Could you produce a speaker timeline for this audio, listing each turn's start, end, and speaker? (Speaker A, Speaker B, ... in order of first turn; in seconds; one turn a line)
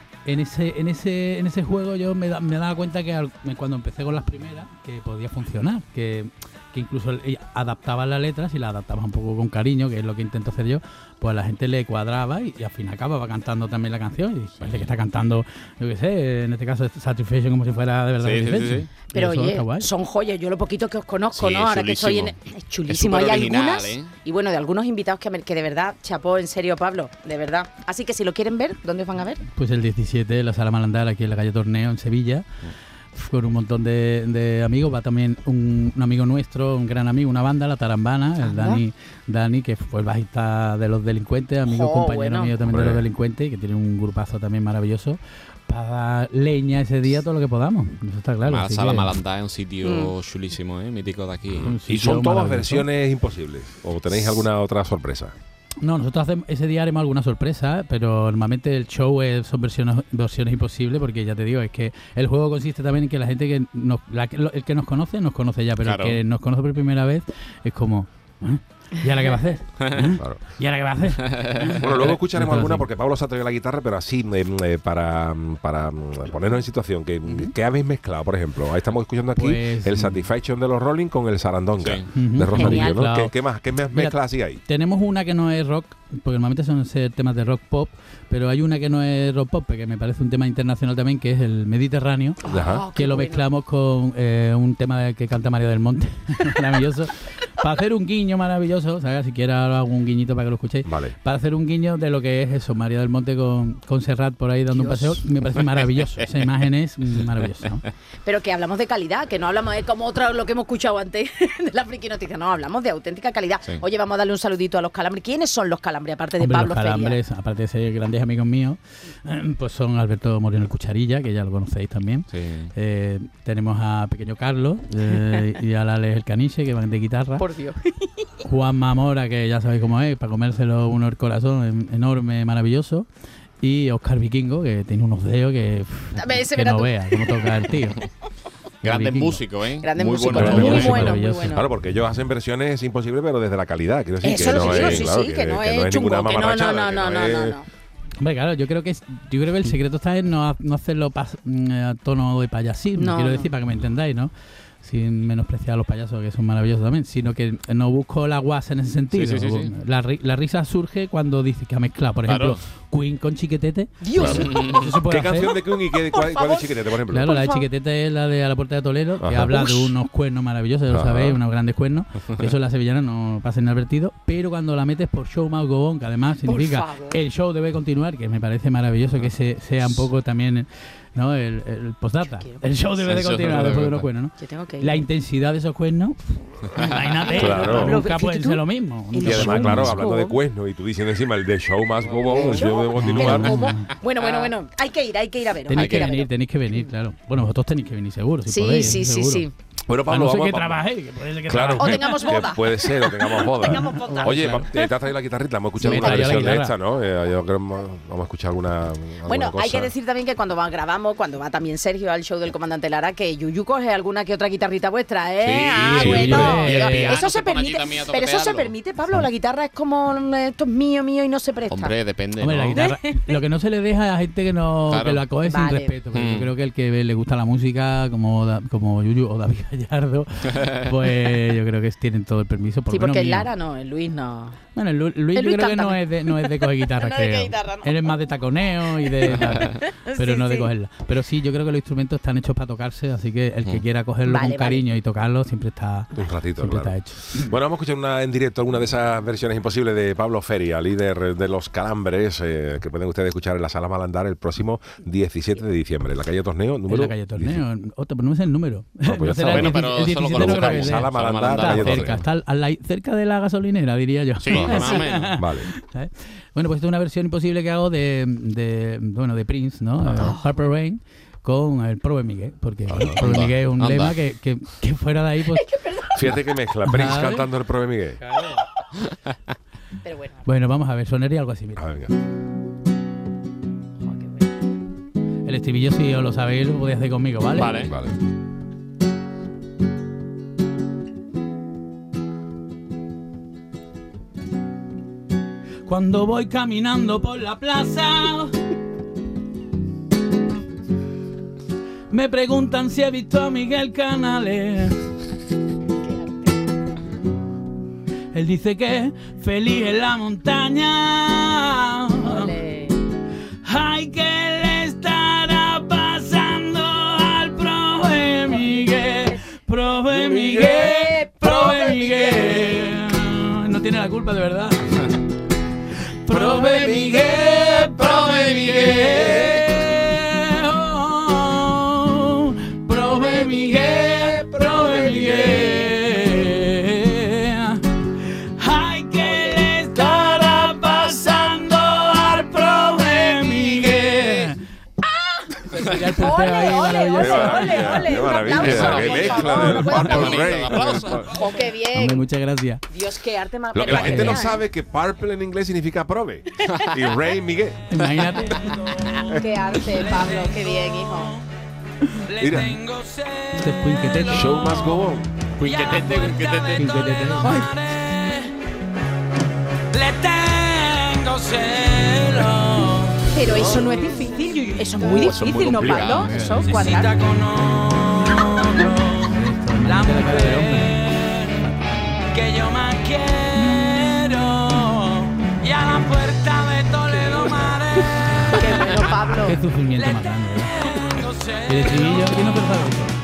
Speaker A: 0.2-19.9
Speaker B: 14.6-14.9
Speaker B: 18.2-18.9
Speaker C: 19.1-29.4
Speaker B: 21.3-22.3
Speaker B: 22.9-24.1
Speaker A: 29.5-32.4
Speaker A: 33.1-49.1
Speaker C: 38.4-38.8
Speaker C: 41.7-42.5
Speaker D: 42.6-43.0
Speaker B: 48.4-51.7
Speaker C: 49.8-50.1
Speaker D: 51.5-55.3
Speaker A: 51.6-52.9
Speaker A: 55.8-72.8
Speaker B: 65.8-66.2
Speaker B: 69.8-70.2
Speaker D: 70.2-70.4
Speaker B: 71.2-71.9
Speaker D: 71.8-84.6
Speaker A: 79.4-80.3
Speaker B: 81.8-82.1
Speaker A: 82.1-83.3
Speaker C: 82.5-83.0
Speaker A: 83.9-92.4
Speaker C: 92.4-93.5
Speaker D: 92.5-92.8
Speaker A: 92.9-107.8
Speaker D: 100.8-101.1
Speaker C: 104.7-105.2
Speaker C: 108.2-117.2
Speaker A: 116.4-127.4
Speaker B: 122.3-122.7
Speaker C: 125.1-125.4
Speaker C: 127.4-128.3
Speaker A: 128.4-133.1
Speaker A: 133.6-138.1
Speaker C: 136.1-137.7
Speaker A: 138.8-139.4
Speaker B: 138.8-141.2
Speaker C: 139.8-141.7
Speaker A: 140.3-141.6
Speaker D: 140.4-147.6
Speaker C: 144.2-147.7
Speaker B: 144.3-145.1
Speaker A: 148.2-165.5
Speaker C: 152.9-153.5
Speaker B: 159.1-159.7
Speaker B: 162.3-162.6
Speaker C: 164.0-164.8
Speaker D: 164.2-167.4
Speaker B: 164.2-164.9
Speaker C: 165.3-167.7
Speaker A: 167.1-190.0
Speaker D: 169.2-169.8
Speaker C: 169.5-169.9
Speaker D: 170.9-171.4
Speaker C: 176.4-177.2
Speaker C: 182.2-182.6
Speaker B: 183.0-184.0
Speaker C: 184.4-185.0
Speaker B: 186.8-187.0
Speaker C: 187.2-190.4
Speaker D: 187.3-188.0
Speaker D: 189.2-193.6
Speaker C: 192.2-196.9
Speaker B: 192.3-192.6
Speaker A: 192.9-193.9
Speaker B: 194.2-194.5
Speaker A: 195.7-199.4
Speaker B: 195.7-196.1
Speaker C: 198.5-199.5
Speaker D: 199.9-200.8
Speaker A: 200.1-202.3
Speaker D: 201.4-209.9
Speaker C: 201.8-204.9
Speaker A: 203.8-204.7
Speaker C: 205.8-206.3
Speaker A: 205.8-206.7
Speaker C: 209.2-221.9
Speaker B: 215.4-218.7
Speaker A: 215.8-217.1
Speaker D: 216.0-216.4
Speaker B: 221.7-222.8
Speaker A: 222.4-233.5
Speaker C: 222.7-223.4
Speaker B: 224.9-225.2
Speaker C: 225.4-225.9
Speaker B: 226.1-226.5
Speaker C: 232.9-234.6
Speaker A: 234.7-247.5
Speaker C: 235.3-238.0
Speaker C: 238.9-240.7
Speaker C: 244.2-244.9
Speaker D: 246.1-257.6
Speaker A: 256.9-275.7
Speaker D: 259.0-262.2
Speaker B: 259.4-262.1
Speaker B: 264.4-265.4
Speaker D: 264.5-265.7
Speaker D: 270.0-270.3
Speaker C: 270.2-270.6
Speaker D: 272.9-273.3
Speaker B: 272.9-274.2
Speaker C: 275.5-276.2
Speaker D: 276.1-278.2
Speaker A: 276.3-277.5
Speaker A: 278.2-278.6
Speaker C: 280.0-280.4
Speaker A: 280.4-281.8
Speaker D: 281.8-282.1
Speaker C: 284.0-284.5
Speaker A: 285.4-287.7
Speaker B: 287.6-287.9
Speaker D: 287.7-288.1
Speaker A: 295.9-298.5
Speaker A: 302.1-305.0
Speaker C: 306.0-306.5
Speaker A: 308.3-312.5
Speaker C: 312.2-313.0
Speaker A: 313.7-325.0
Speaker E: 313.7-317.0
Speaker C: 318.5-319.4
Speaker D: 320.1-320.9
Speaker C: 320.4-323.0
Speaker A: 326.3-334.1
Speaker E: 326.3-331.7
Speaker D: 326.6-329.8
Speaker E: 332.9-336.4
Speaker C: 335.3-335.9
Speaker A: 335.4-337.8
Speaker E: 338.6-344.5
Speaker C: 339.3-339.8
Speaker A: 344.2-344.6
Speaker C: 345.1-352.2
Speaker A: 345.7-348.9
Speaker D: 347.1-351.3
Speaker B: 348.5-351.4
Speaker A: 349.5-350.2
Speaker A: 351.9-352.8
Speaker C: 352.9-354.6
Speaker D: 353.7-357.9
Speaker A: 353.9-354.4
Speaker A: 357.9-358.7
Speaker B: 358.6-358.8
Speaker E: 358.6-359.3
Speaker C: 359.2-361.4
Speaker E: 359.9-361.4
Speaker E: 362.2-365.1
Speaker D: 362.4-362.7
Speaker A: 362.5-362.7
Speaker A: 363.6-364.7
Speaker D: 364.3-365.3
Speaker B: 365.6-366.9
Speaker E: 365.6-368.5
Speaker A: 366.8-367.7
Speaker C: 367.4-367.7
Speaker E: 369.9-375.0
Speaker C: 373.3-377.1
Speaker B: 375.0-376.5
Speaker D: 375.8-376.6
Speaker E: 376.6-381.7
Speaker A: 379.3-381.0
Speaker E: 382.3-392.6
Speaker A: 388.3-390.8
Speaker C: 388.5-389.6
Speaker A: 391.7-393.1